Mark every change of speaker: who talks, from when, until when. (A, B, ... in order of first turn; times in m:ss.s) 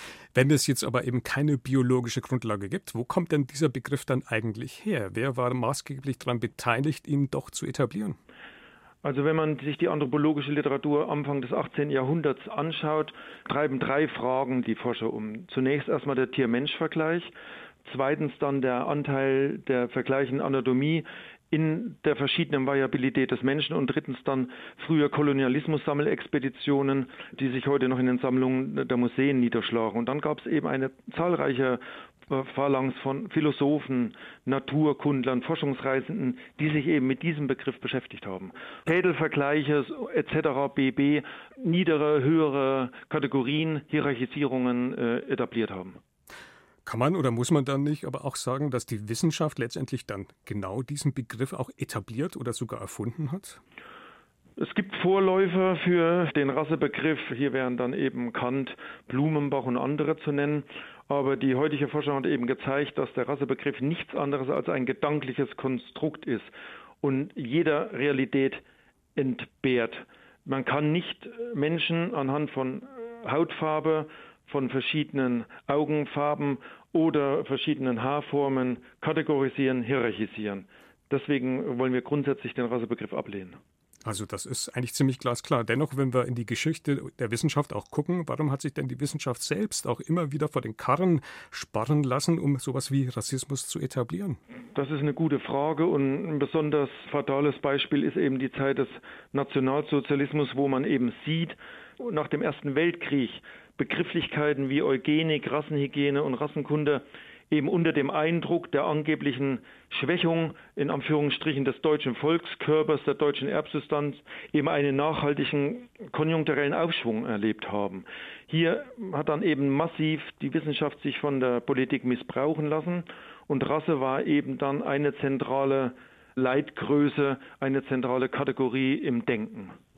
0:00.3-0:08.2 A
0:09.0-0:17.3 B
0:17.8-0:46.0 B
0:46.8-0:53.6 A
0:54.6-1:06.5 B
1:07.0-1:08.6 B
1:09.2-1:23.6 B
1:24.0-1:34.4 A
1:34.7-2:09.8 B